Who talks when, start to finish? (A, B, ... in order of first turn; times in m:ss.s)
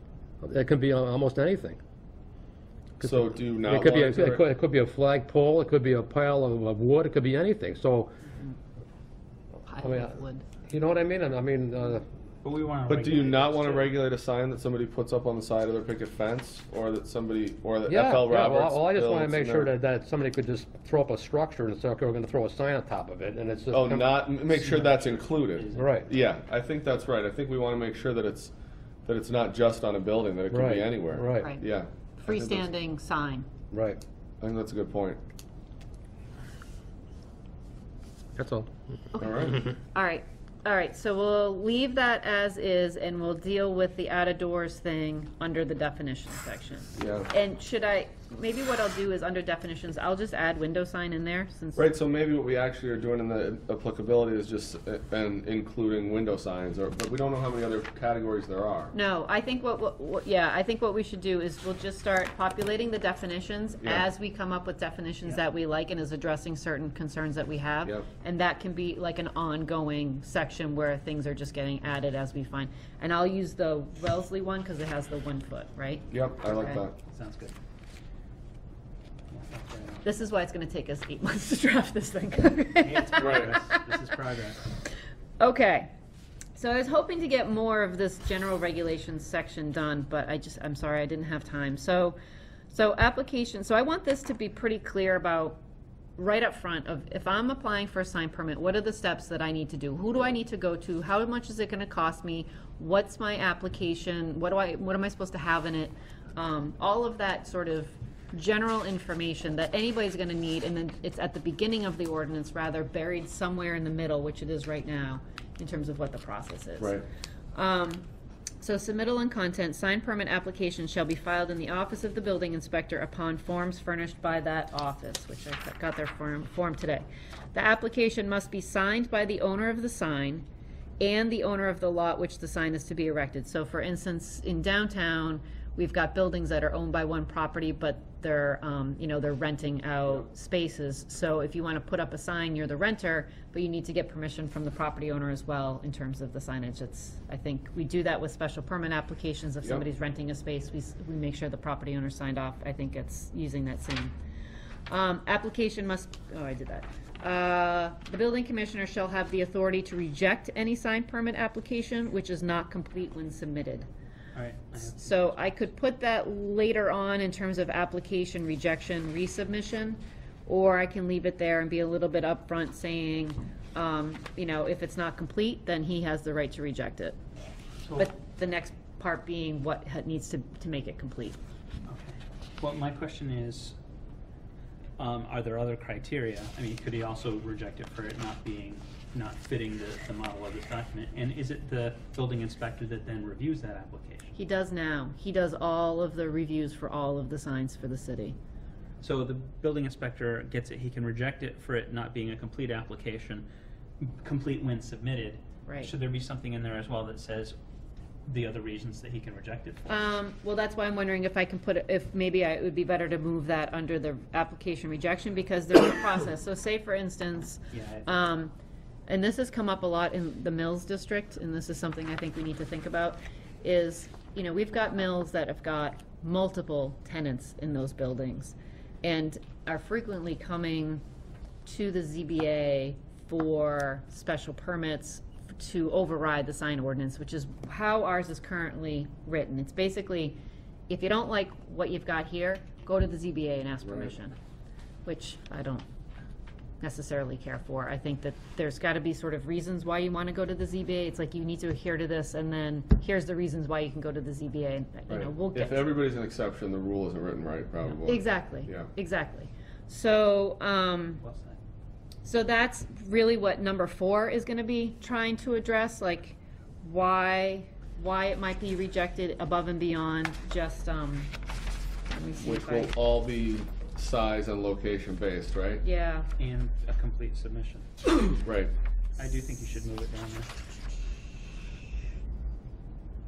0:00.4-0:01.8 A
0:03.0-0:04.5 B
0:03.0-0:08.1 A
0:09.6-0:10.4 C
0:09.8-0:12.0 A
0:12.4-0:13.9 D
0:12.9-0:19.7 B
0:17.9-0:24.2 A
0:23.7-0:28.5 B
0:24.5-0:26.0 D
0:25.7-0:26.1 A
0:29.0-0:32.7 B
0:30.5-0:31.5 A
0:31.4-0:31.6 C
0:32.2-0:33.5 C
0:33.7-0:34.0 A
0:34.4-0:35.2 B
0:38.4-0:38.7 A
0:39.1-0:51.9 C
0:39.2-0:39.6 B
0:47.0-0:47.3 B
0:51.8-0:58.9 B
0:58.9-1:16.8 C
1:16.1-1:17.0 B
1:17.0-1:17.5 D
1:19.3-1:20.0 D
1:20.0-1:23.8 C
1:22.8-1:24.7 D
1:23.2-1:23.6 B
1:25.4-1:25.9 C
1:26.6-1:32.2 C
1:32.7-1:35.6 C
1:36.2-1:57.0 C
1:57.5-1:58.0 C
1:58.6-2:10.4 C
2:11.0-2:34.1 C
2:34.9-2:43.9 C
2:44.3-2:45.2 D
2:44.8-2:57.2 C
2:57.8-2:58.1 D
2:58.0-3:01.4 C
3:01.9-3:03.8 D
3:05.0-3:14.3 D
3:14.3-3:18.4 C
3:19.0-3:23.5 D
3:24.0-3:27.6 D
3:28.2-3:29.8 D
3:29.9-3:38.5 C
3:37.7-3:38.1 D
3:39.1-3:51.0 C
3:51.6-4:04.3 C
4:05.0-4:05.9 C
4:06.8-4:15.9 C
4:15.1-4:18.9 B
4:17.9-4:21.2 C
4:21.2-4:21.6 D
4:22.2-4:31.3 C
4:32.1-4:32.9 C
4:32.4-4:35.8 B
4:35.8-4:36.3 C
4:36.4-4:38.3 D
4:38.4-4:38.7 B
4:39.2-4:40.5 D